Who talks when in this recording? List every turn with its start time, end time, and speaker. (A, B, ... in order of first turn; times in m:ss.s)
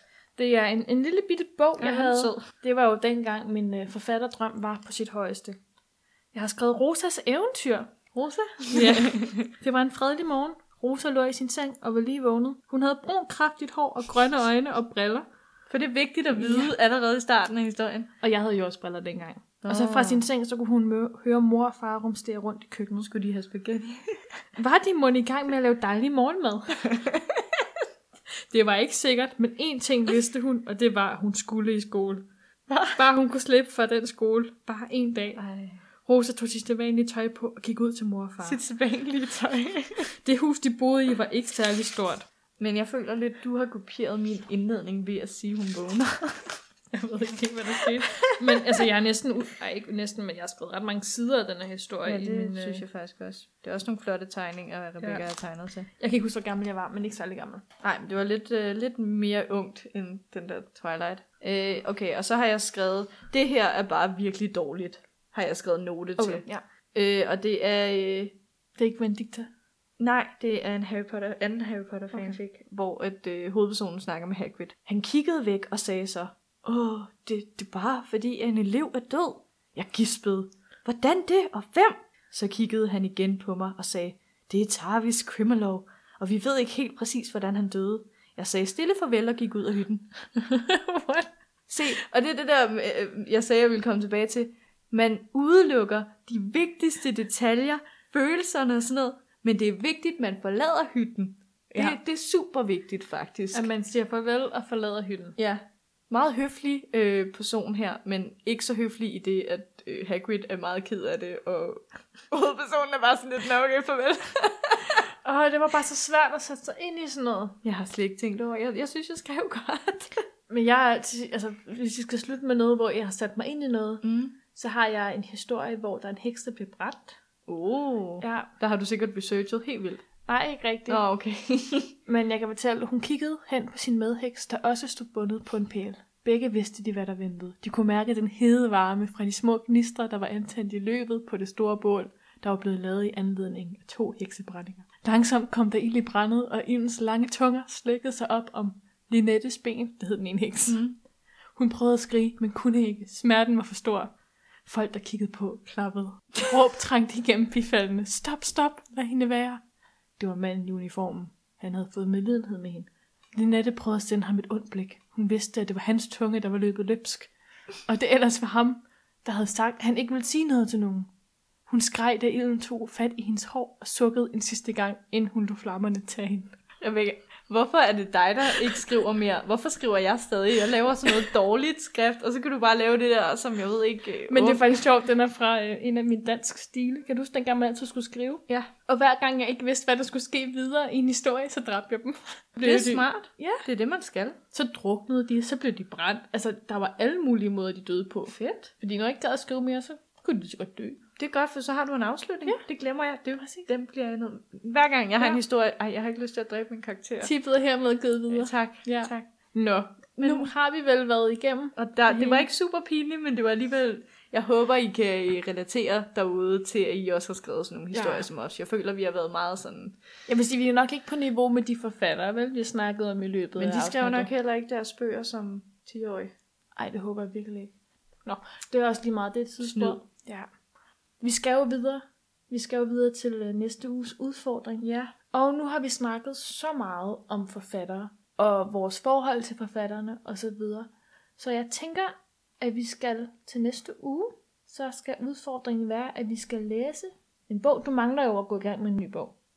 0:00.4-0:05.6 A
0:01.8-0:02.4 B
0:06.3-0:15.2 A
0:08.1-0:09.4 B
0:15.7-0:18.1 B
0:16.3-0:16.7 A
0:18.2-0:23.1 A
0:19.6-0:20.2 B
0:23.0-0:24.0 B
0:24.6-0:27.0 A
0:26.9-0:27.4 B
0:28.5-0:32.2 A
0:32.7-0:33.0 B
0:33.0-0:35.4 A
0:35.4-0:35.8 B
0:36.0-0:38.6 A
0:38.4-0:40.1 B
0:40.2-0:42.2 A
0:42.6-0:46.6 B
0:46.9-0:52.8 A
0:47.8-0:48.8 B
0:52.0-0:55.9 B
0:55.0-0:55.2 A
0:56.0-0:57.6 A
0:57.8-1:08.4 B
1:06.2-1:06.6 A
1:08.8-1:09.5 A
1:10.0-1:30.1 B
1:12.1-1:12.4 A
1:30.4-1:31.3 A
1:31.7-1:43.7 B
1:43.5-1:45.4 A
1:45.4-1:55.0 B
1:55.2-1:57.6 A
1:57.6-2:00.1 B
2:00.5-2:07.2 A
2:04.0-2:04.4 B
2:07.5-2:10.0 B
2:08.2-2:08.5 A
2:10.2-2:11.0 A
2:10.9-2:11.9 B
2:12.0-2:30.8 A
2:30.7-2:31.0 B
2:31.6-2:34.1 A
2:34.6-2:39.6 A
2:40.2-2:47.3 A
2:47.8-2:51.1 A
2:51.7-2:56.5 A
2:56.8-3:04.8 B
3:04.3-3:13.6 A
3:12.6-3:14.4 B
3:14.5-3:21.0 A
3:18.3-3:18.7 B
3:21.2-3:27.3 B
3:23.4-3:23.7 A
3:27.2-3:32.5 A
3:28.3-3:29.3 B
3:30.2-3:30.5 B
3:31.8-3:40.0 B
3:37.9-3:38.3 A
3:40.3-3:44.3 A
3:43.6-3:46.3 B
3:46.8-3:47.7 A
3:48.2-3:50.5 A
3:49.6-3:50.0 B
3:51.2-4:09.4 A
3:54.8-3:55.1 B